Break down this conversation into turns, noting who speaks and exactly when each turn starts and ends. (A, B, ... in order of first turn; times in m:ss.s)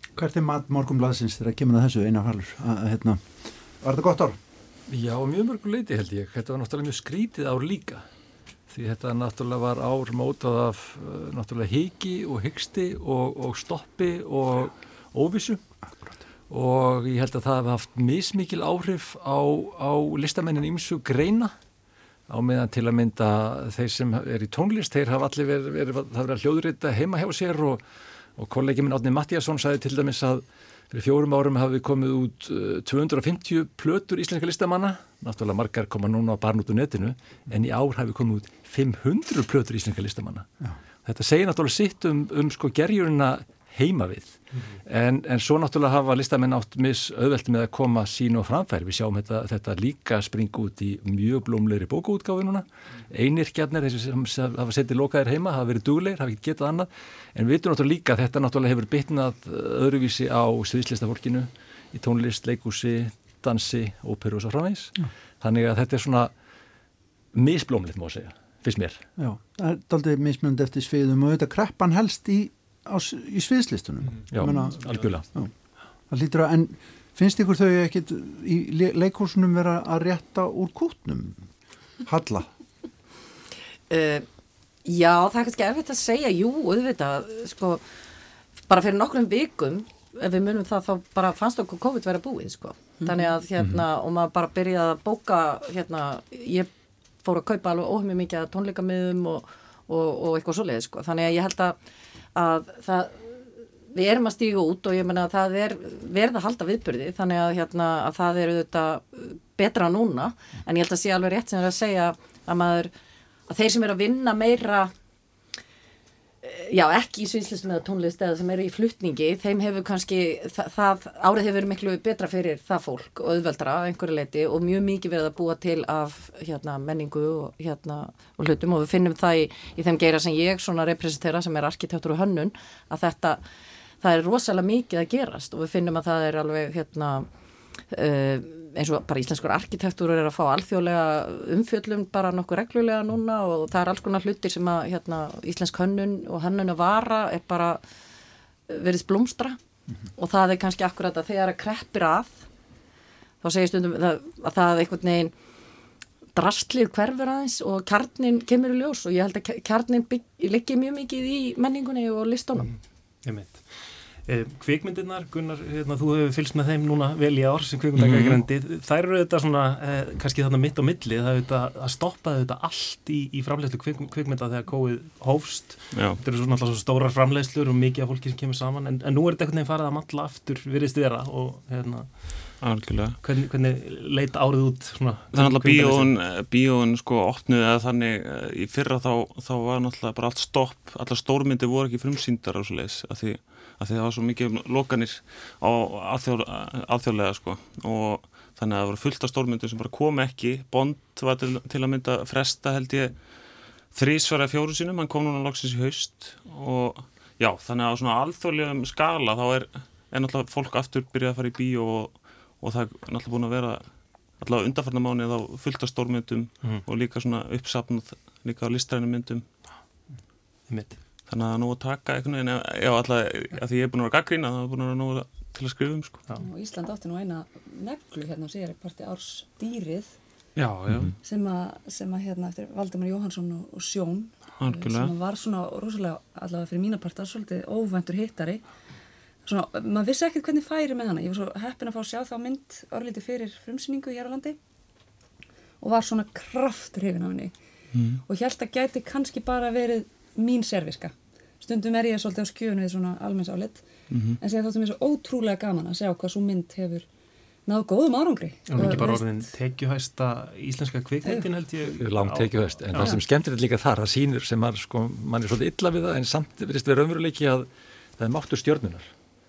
0:00.2-0:04.4 A
0:04.9-0:08.0 B
0:08.7-0:15.6 B
0:16.5-0:21.5 B
0:22.3-0:27.8 B
0:28.4-0:40.5 B
0:41.0-1:06.3 B
1:07.3-1:09.0 B
1:09.2-1:15.5 A
1:14.3-1:15.3 B
1:14.8-1:15.1 C
1:16.1-1:21.5 A
1:22.0-1:22.5 A
1:23.9-1:24.3 D
1:24.8-1:27.8 D
1:28.7-1:36.7 D
1:37.2-1:41.8 D
1:42.4-1:43.4 D
1:43.9-1:52.9 D
1:53.5-1:54.9 D
1:56.4-2:13.4 D
2:14.0-2:17.3 D
2:17.9-2:27.8 D
2:28.7-2:29.6 D
2:30.2-2:32.4 D
2:33.4-2:35.3 D
2:36.4-2:42.7 D
2:43.2-3:06.2 C
2:48.0-2:48.4 E
2:55.9-2:56.2 E
3:02.6-3:03.2 E
3:05.3-3:39.5 E
3:40.7-3:41.0 C
3:41.3-3:46.2 E
3:46.4-3:50.2 F
3:50.6-3:51.1 E
3:51.2-3:58.6 F
3:54.6-3:55.1 E
3:59.4-4:04.6 F
4:05.8-4:07.5 F
4:07.9-4:08.2 E
4:08.3-4:13.8 F
4:14.1-4:14.4 E
4:14.4-4:17.1 F
4:17.7-4:19.5 F
4:18.7-4:23.2 C
4:21.2-4:21.5 F
4:21.9-4:29.1 B